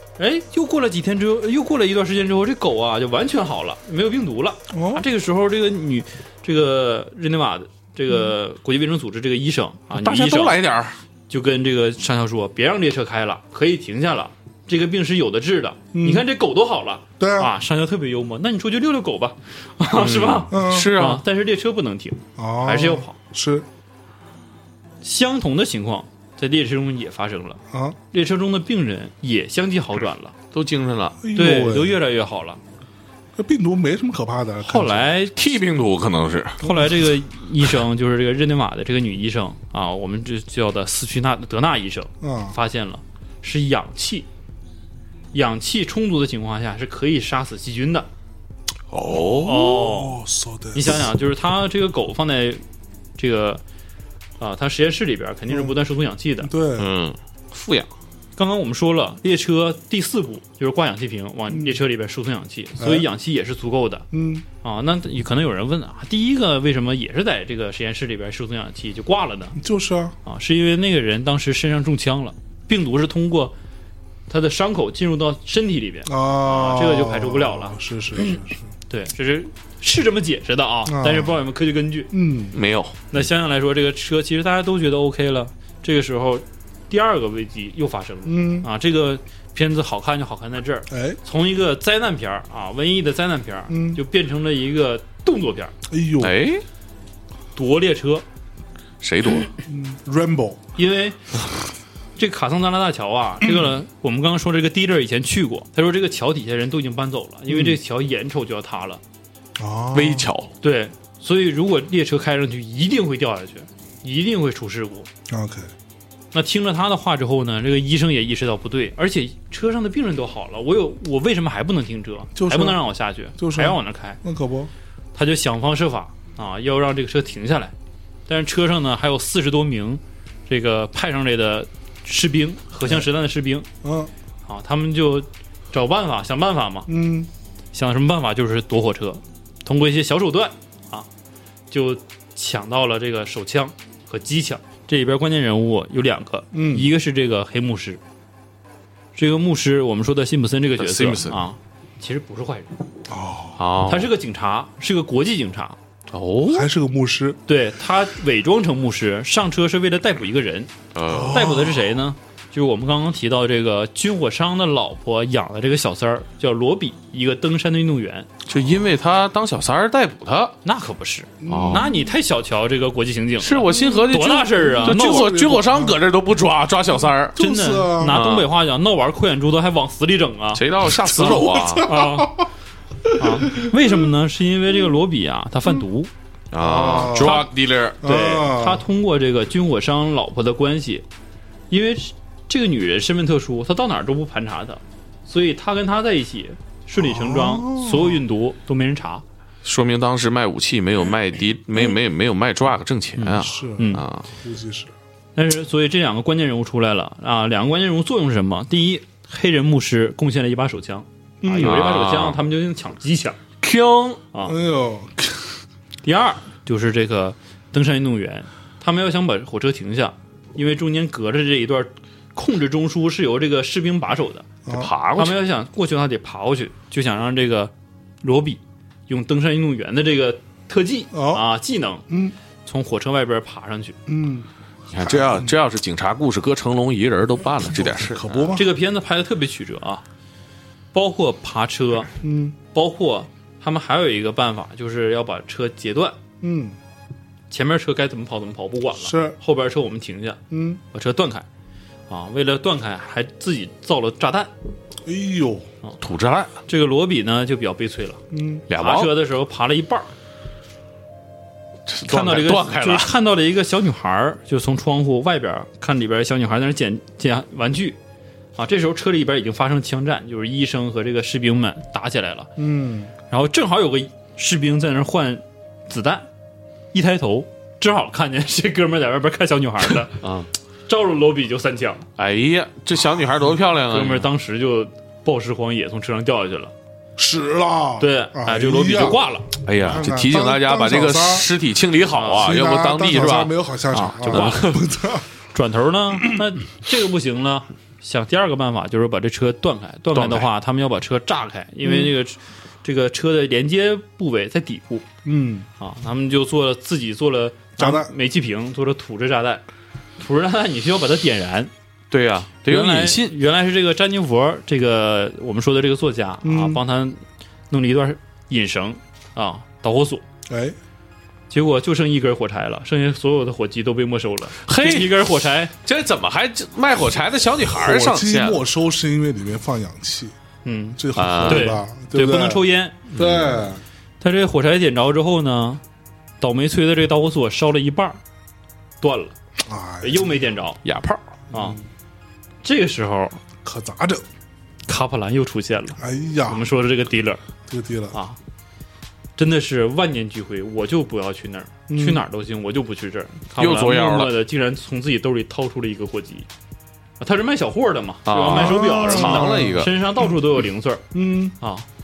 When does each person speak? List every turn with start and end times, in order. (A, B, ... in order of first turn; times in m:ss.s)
0:00.2-0:10.6 A
0:04.7-0:05.0 B
0:09.9-0:10.9 C
0:11.3-0:23.1 A
0:15.9-0:16.2 B
0:17.2-0:17.5 B
0:19.9-0:21.2 C
0:20.5-0:20.9 B
0:22.4-0:23.6 B
0:25.0-0:27.6 A
0:27.7-0:28.0 B
0:28.1-0:30.3 A
0:30.5-0:31.2 C
0:31.2-0:32.0 B
0:31.3-0:32.6 A
0:33.4-0:35.0 B
0:34.6-0:35.3 A
0:35.3-0:36.6 C
0:36.6-0:44.2 A
0:36.6-0:37.0 B
0:42.2-0:42.6 B
0:45.3-0:48.1 A
0:48.9-0:49.6 C
0:49.1-0:51.0 B
0:49.4-0:50.2 A
0:50.7-0:52.6 A
0:53.2-0:53.6 A
0:54.4-0:56.5 A
0:55.5-0:55.7 B
0:56.4-0:56.9 B
0:56.8-0:57.9 C
0:58.4-1:04.0 A
1:01.5-1:01.8 B
1:02.8-1:03.0 B
1:04.1-1:04.4 B
1:04.6-1:09.6 A
1:09.6-1:10.1 B
1:10.2-1:13.5 A
1:14.3-1:22.1 A
1:16.0-1:18.6 B
1:20.8-1:21.3 B
1:22.1-1:22.5 B
1:22.5-1:22.9 C
1:23.1-1:35.7 A
1:28.2-1:28.7 B
1:30.9-1:31.2 B
1:33.7-1:34.0 B
1:35.9-1:36.3 B
1:36.2-1:36.6 C
1:37.5-1:38.2 A
1:39.0-1:39.5 C
1:39.6-1:40.6 B
1:40.8-1:41.2 A
1:42.2-1:49.0 A
1:43.4-1:43.8 B
1:47.5-1:47.8 B
1:49.6-1:50.3 B
1:49.9-1:50.5 C
1:50.6-1:55.1 A
1:55.3-1:55.7 B
1:56.3-2:04.2 A
2:02.3-2:02.8 B
2:03.4-2:04.7 B
2:05.1-2:07.7 A
2:08.3-2:13.7 A
2:13.8-2:14.1 B
2:14.4-2:16.9 A
2:16.9-2:17.3 B
2:17.7-2:21.0 A
2:21.7-2:28.0 A
2:26.5-2:26.9 B
2:29.1-2:32.8 A
2:30.8-2:31.4 C
2:33.1-2:33.6 B
2:33.6-2:34.1 C
2:33.8-2:35.8 A
2:36.1-2:36.7 C
2:36.5-2:37.4 B
2:37.5-2:40.7 A
2:40.9-2:41.5 C
2:41.1-2:42.0 B
2:41.3-2:48.3 A
2:48.5-2:50.6 C
2:50.6-2:55.4 A
2:51.4-2:52.1 B
2:51.5-2:51.8 C
2:53.4-2:57.4 C
2:53.7-2:56.0 B
2:57.3-2:58.2 B
2:57.4-3:02.4 A
2:58.1-2:58.5 C
3:00.5-3:01.9 C
3:00.9-3:02.5 B
3:03.0-3:04.0 B
3:03.1-3:06.1 A
3:06.5-3:08.0 C
3:06.6-3:07.4 B
3:07.2-3:07.5 A
3:08.0-3:11.0 A
3:08.0-3:08.8 B
3:11.7-3:19.2 A
3:17.0-3:18.2 B
3:19.6-3:24.2 C
3:23.2-3:24.0 A
3:23.4-3:24.9 B
3:25.3-3:33.4 A
3:31.4-3:31.8 B
3:31.6-3:32.4 C
3:33.6-3:34.2 C
3:34.4-3:35.6 B
3:36.0-3:44.5 A
3:44.6-3:44.9 B
3:44.7-3:45.4 C
3:45.1-3:47.7 A
3:48.2-3:52.0 A
3:51.1-3:51.4 B
3:52.1-3:52.3 B
3:52.6-3:54.0 A
3:54.1-3:55.5 B
3:54.9-3:58.5 C
3:57.6-3:58.7 B
3:58.5-4:00.0 A
4:00.9-4:02.1 A
4:02.2-4:02.6 B
4:02.7-4:06.2 A
4:06.4-4:06.8 B
4:07.5-4:10.4 A
4:09.0-4:09.4 B
4:10.5-4:10.8 B
4:10.9-4:11.4 A
4:12.1-4:14.5 A
4:15.0-4:15.6 B
4:16.0-4:16.6 C
4:16.7-4:20.1 A
4:18.3-4:18.6 B
4:18.7-4:19.1 C
4:21.9-4:23.1 C
4:22.1-4:28.0 A
4:28.6-4:32.5 A
4:32.6-4:33.1 B
4:33.3-4:36.3 A
4:36.9-4:40.2 A
4:40.2-4:40.5 C
4:40.9-4:42.0 A
4:42.2-4:44.3 C
4:43.9-4:46.7 A
4:47.2-4:49.2 B
4:48.0-4:49.5 A
4:49.6-4:53.5 C
4:49.8-4:51.5 B
4:52.1-4:52.5 A
4:52.4-4:55.2 B
4:53.9-4:54.7 A
4:54.2-4:54.8 C
4:55.5-5:05.0 A
5:00.1-5:00.5 C
5:01.8-5:02.1 B
5:05.2-5:05.7 B
5:05.8-5:09.6 A
5:07.8-5:08.1 B
5:10.2-5:11.7 A
5:12.1-5:13.3 C
5:12.7-5:20.2 A
5:16.4-5:16.8 B
5:20.5-5:20.8 B
5:21.5-5:25.7 A
5:24.6-5:25.1 C
5:25.8-5:28.6 C
5:27.7-5:30.3 B
5:30.6-5:33.0 A
5:31.0-5:32.6 B
5:31.1-5:31.7 C
5:33.1-5:33.6 C
5:33.2-5:33.8 B
5:34.2-5:35.8 A
5:36.4-5:38.2 A
5:39.0-5:39.4 A
5:39.6-5:40.5 B
5:40.0-5:40.8 A
5:40.8-5:41.2 C
5:41.5-5:41.8 B
5:41.5-5:41.8 A
5:42.6-5:43.4 A
5:43.6-5:44.2 B
5:44.9-5:47.4 A
5:46.0-5:46.6 B
5:47.7-5:48.2 B
5:49.4-5:56.5 A
5:51.9-5:52.2 B
5:53.6-5:54.3 C
5:57.2-6:01.1 A
5:58.2-5:59.9 C
5:58.5-6:00.3 B
6:01.1-6:01.5 B
6:01.6-6:01.8 A